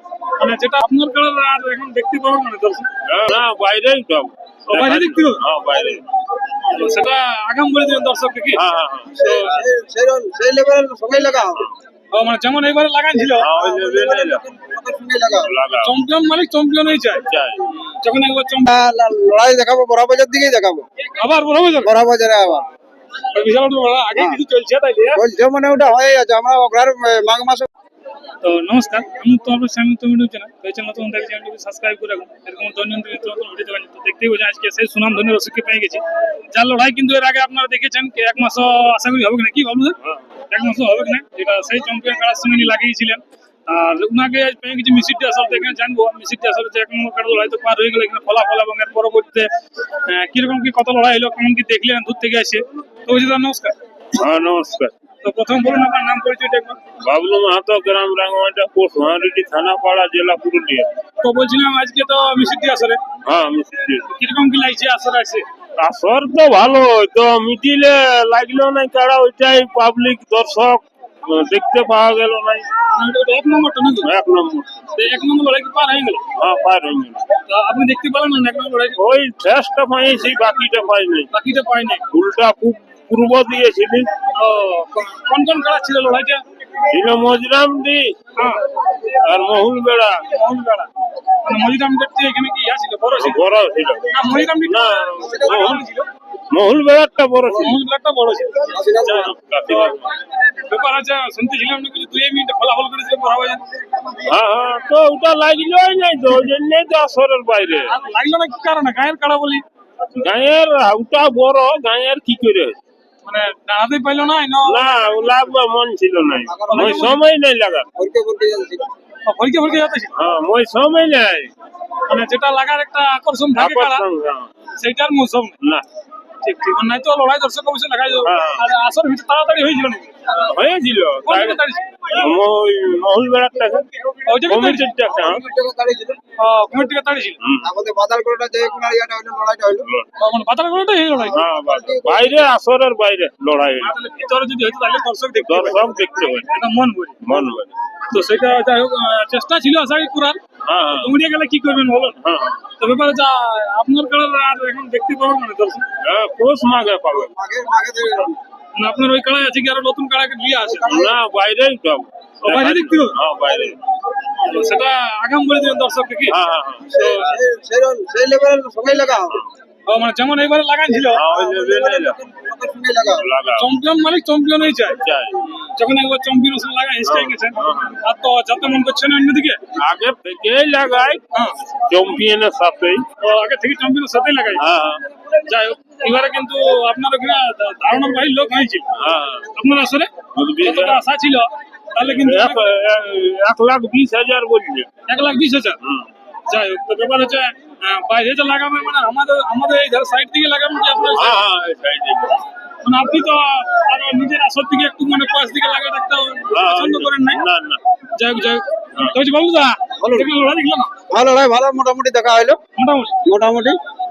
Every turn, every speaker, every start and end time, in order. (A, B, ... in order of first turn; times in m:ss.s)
0:00.4-0:02.9 A
0:03.1-0:06.0 B
0:04.7-0:05.4 A
0:06.6-0:08.6 A
0:08.5-0:09.1 B
0:09.1-0:09.6 A
0:09.2-0:11.7 C
0:12.1-0:13.5 A
0:13.4-0:14.4 B
0:13.6-0:15.5 C
0:15.4-0:15.9 B
0:15.8-0:17.2 A
0:17.3-0:17.6 B
0:18.0-0:18.7 A
0:18.7-0:20.8 C
0:21.2-0:21.9 A
0:21.8-0:22.6 C
0:23.3-0:25.2 A
0:25.1-0:27.7 C
0:28.4-0:40.0 A
0:40.5-0:53.7 A
0:54.2-0:54.9 B
0:55.2-0:56.8 A
0:57.0-1:00.9 B
1:01.2-1:03.0 A
1:03.2-1:04.1 B
1:04.2-1:05.4 A
1:05.8-1:12.6 B
1:12.9-1:14.1 A
1:14.0-1:14.7 B
1:15.0-1:16.2 A
1:16.4-1:17.2 B
1:17.5-1:19.0 A
1:19.0-1:21.3 B
1:21.3-1:22.0 A
1:22.1-1:24.1 B
1:24.3-1:26.4 A
1:26.9-1:28.1 B
1:28.4-1:28.6 A
1:29.0-1:30.2 B
1:30.3-1:30.9 A
1:31.4-1:33.4 A
1:33.2-1:35.8 B
1:34.1-1:36.1 A
1:36.5-1:37.8 B
1:37.5-1:38.7 A
1:38.7-1:39.3 C
1:39.0-1:40.0 B
1:39.7-1:43.6 A
1:44.2-1:47.9 B
1:47.9-1:49.6 A
1:50.2-1:52.7 B
1:53.2-1:55.2 A
1:54.6-1:57.8 B
1:56.5-1:57.1 C
1:56.7-1:57.2 A
1:58.0-1:58.8 C
1:59.2-2:00.1 A
2:00.1-2:01.5 B
2:02.1-2:04.0 A
2:03.6-2:04.5 B
2:04.8-2:05.5 A
2:06.4-2:10.1 A
2:08.2-2:08.6 B
2:10.3-2:15.4 B
2:11.2-2:12.2 A
2:14.2-2:14.9 A
2:15.1-2:16.2 C
2:16.4-2:17.4 A
2:17.4-2:17.7 B
2:17.6-2:19.9 C
2:20.2-2:21.4 A
2:21.1-2:22.4 C
2:21.3-2:23.9 B
2:23.8-2:25.9 A
2:25.5-2:26.5 B
2:26.5-2:27.2 A
2:27.2-2:27.7 B
2:28.1-2:30.4 A
2:30.7-2:31.1 B
2:30.9-2:32.2 A
2:32.2-2:32.6 B
2:32.8-2:35.8 A
2:36.0-2:37.3 B
2:37.3-2:38.4 C
2:38.8-2:41.0 A
2:40.6-2:41.1 C
2:40.9-2:43.8 B
2:42.4-2:43.2 A
2:44.4-2:46.4 A
2:46.3-2:46.9 B
2:46.9-2:49.4 C
2:46.9-2:47.4 A
2:49.9-2:51.2 A
2:51.1-2:52.2 B
2:51.3-2:53.3 C
2:53.2-2:53.7 B
2:53.6-2:55.0 A
2:55.0-2:55.4 B
2:55.7-2:59.6 A
2:57.0-2:58.0 B
2:59.8-3:01.2 B
3:01.9-3:03.0 B
3:03.2-3:04.6 A
3:04.6-3:05.0 B
3:05.4-3:08.8 A
3:09.0-3:09.4 B
3:09.5-3:12.7 A
3:10.3-3:11.0 B
3:12.0-3:14.9 B
3:15.1-3:15.8 A
3:16.5-3:21.4 A
3:21.1-3:22.4 B
3:22.8-3:27.4 A
3:26.5-3:27.8 B
3:28.2-3:30.9 A
3:30.0-3:30.3 C
3:31.1-3:32.6 C
3:32.8-3:33.1 A
3:33.2-3:33.8 C